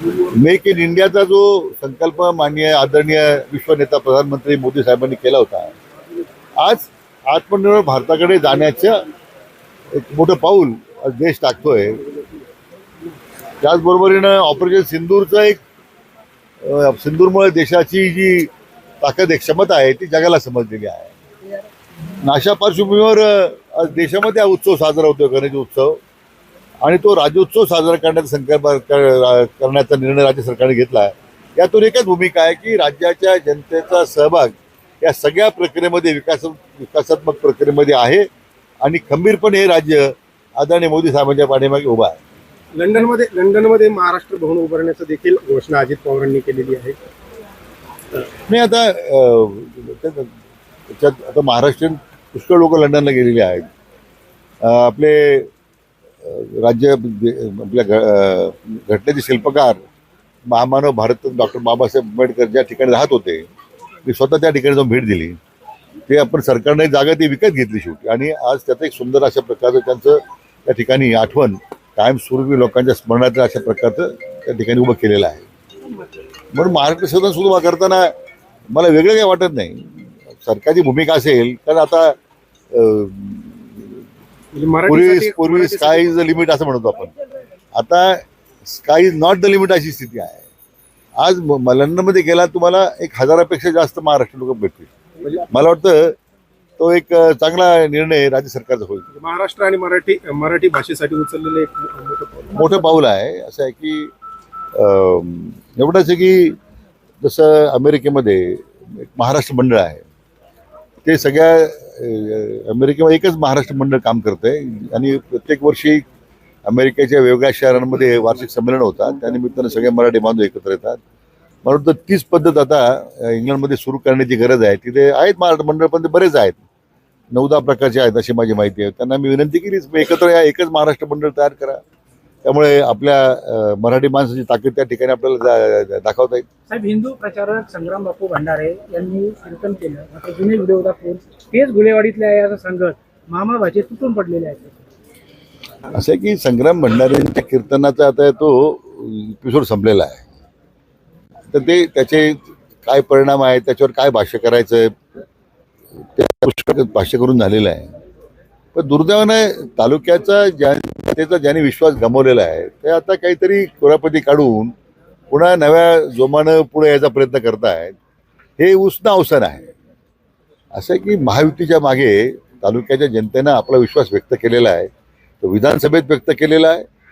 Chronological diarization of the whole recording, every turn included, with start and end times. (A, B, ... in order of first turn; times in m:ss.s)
0:00.2-0:05.8 A
0:06.6-0:09.0 A
0:09.9-0:12.0 A
0:13.6-0:15.6 A
0:16.6-0:18.5 A
0:19.0-0:21.1 A
0:22.2-0:26.0 A
0:26.8-0:38.3 A
0:38.8-0:42.2 A
0:42.7-0:47.0 B
0:48.5-0:50.3 A
0:50.9-0:53.7 A
0:54.6-0:55.5 A
0:56.2-0:59.8 A
1:00.5-1:03.5 A
1:04.1-1:05.4 A
1:06.1-1:15.4 A
1:16.5-1:18.1 A
1:18.7-1:19.9 A
1:20.4-1:22.2 A
1:22.7-1:24.0 A
1:24.5-1:26.2 B
1:24.9-1:27.2 A
1:27.8-1:30.4 A
1:31.2-1:34.9 A
1:35.5-1:36.2 A
1:36.8-1:39.1 A
1:39.1-1:42.9 B
1:42.6-1:44.1 A
1:44.8-1:46.6 A
1:47.2-1:50.0 A
1:51.0-1:56.0 A
1:56.7-2:01.0 A
2:01.6-2:06.6 A
2:07.3-2:11.8 A
2:12.4-2:16.4 A
2:16.7-2:24.8 C
2:25.9-2:30.2 A
2:31.5-2:35.0 A
2:36.2-2:37.9 A
2:38.8-2:44.7 A
2:45.3-2:47.9 A
2:48.6-2:49.7 A
2:50.7-2:54.9 A
2:55.4-2:56.8 A